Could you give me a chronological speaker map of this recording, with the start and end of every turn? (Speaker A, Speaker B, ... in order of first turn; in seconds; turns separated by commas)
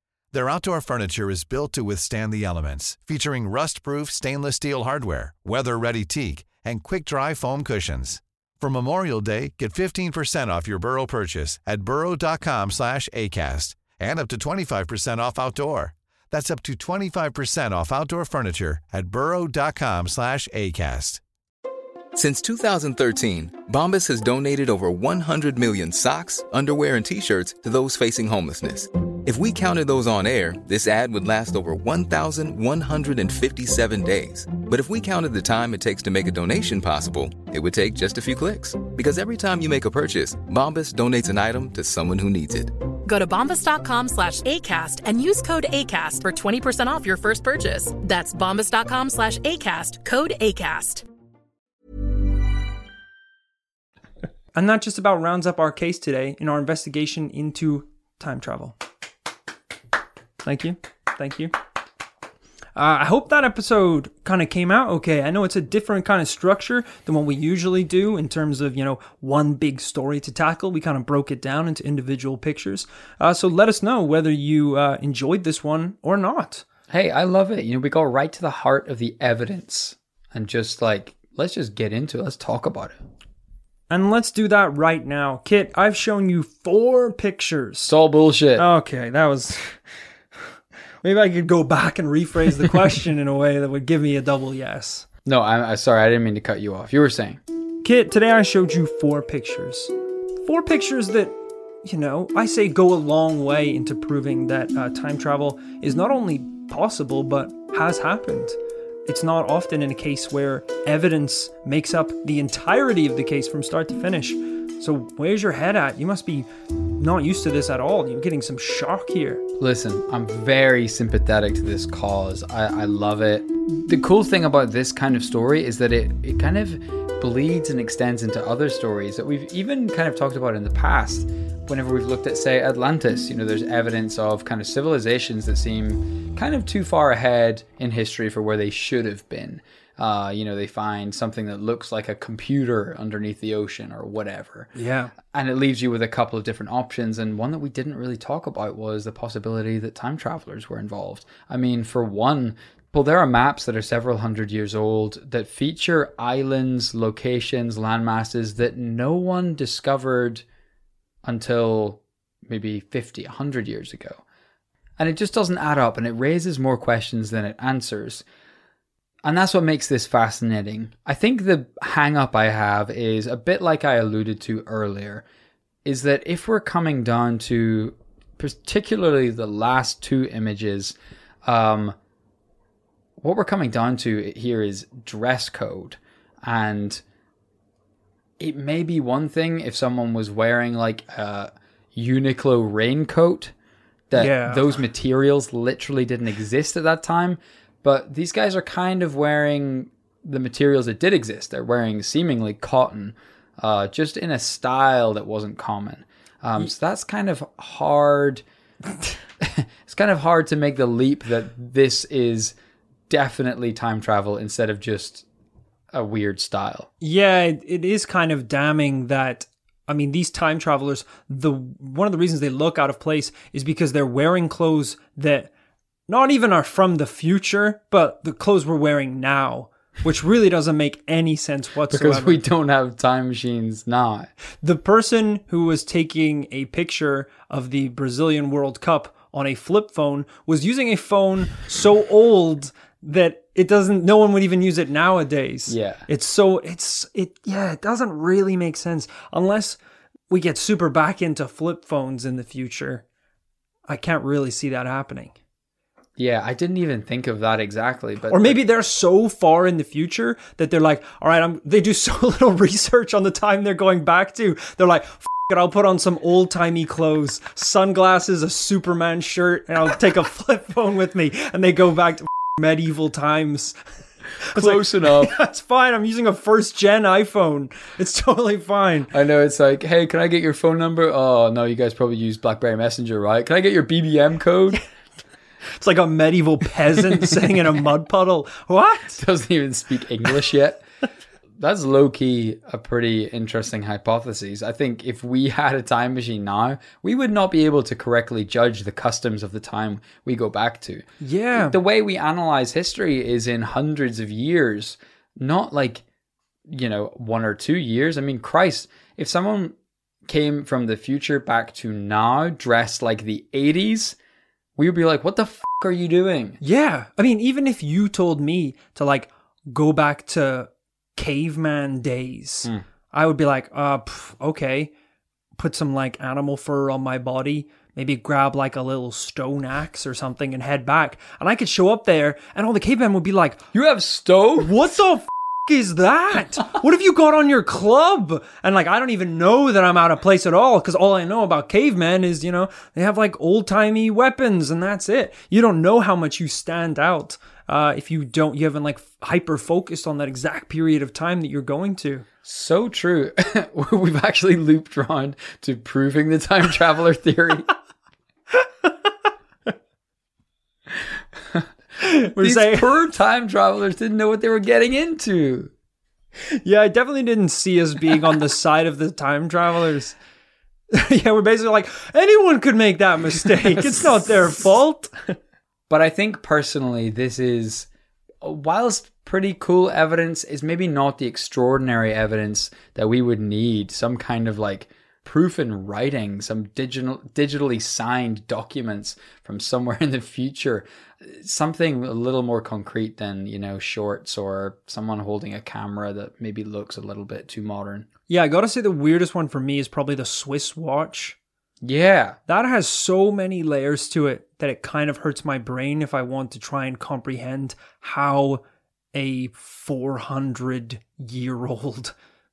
Speaker A: 0.3-21.2, Speaker B: 22.1-42.7, Speaker C: 43.1-51.0, Speaker D: 54.5-58.8, Speaker D: 60.4-61.5, Speaker D: 62.8-76.7, Speaker E: 76.9-83.0, Speaker D: 83.9-87.9, Speaker E: 87.9-88.7, Speaker D: 88.6-89.7, Speaker D: 91.0-95.1, Speaker E: 95.2-97.4, Speaker D: 97.8-99.9, Speaker D: 100.5-119.4, Speaker E: 119.6-144.7, Speaker D: 144.8-145.1, Speaker E: 145.2-160.4, Speaker E: 161.2-164.2, Speaker E: 165.0-168.2, Speaker E: 169.2-175.2, Speaker E: 175.8-182.0, Speaker E: 183.2-187.0, Speaker E: 188.4-193.5, Speaker E: 194.1-208.4, Speaker D: 194.2-194.7, Speaker E: 209.4-212.6, Speaker E: 213.1-215.2, Speaker E: 215.9-216.9, Speaker D: 217.0-225.5, Speaker D: 226.1-232.4, Speaker E: 231.9-234.3, Speaker D: 234.6-253.1, Speaker E: 245.7-246.0, Speaker D: 253.9-255.3, Speaker E: 256.2-258.6, Speaker D: 258.3-273.8, Speaker D: 274.4-279.1, Speaker E: 274.6-275.4, Speaker E: 279.1-284.8, Speaker D: 285.8-289.2, Speaker E: 287.1-287.5, Speaker E: 289.1-290.8, Speaker E: 291.6-306.0, Speaker D: 301.2-301.8, Speaker E: 306.7-314.2, Speaker E: 314.8-316.6, Speaker D: 316.6-324.9, Speaker D: 325.6-333.6, Speaker E: 333.7-334.8, Speaker D: 334.6-352.3, Speaker E: 352.4-357.7, Speaker D: 358.6-358.9, Speaker D: 362.0-362.9, Speaker E: 362.3-365.7, Speaker D: 366.6-370.2, Speaker D: 370.9-375.4, Speaker E: 373.6-374.3, Speaker E: 375.9-377.9, Speaker E: 378.4-398.1, Speaker D: 398.3-401.4, Speaker E: 401.8-402.4, Speaker D: 402.5-408.6, Speaker D: 409.1-412.1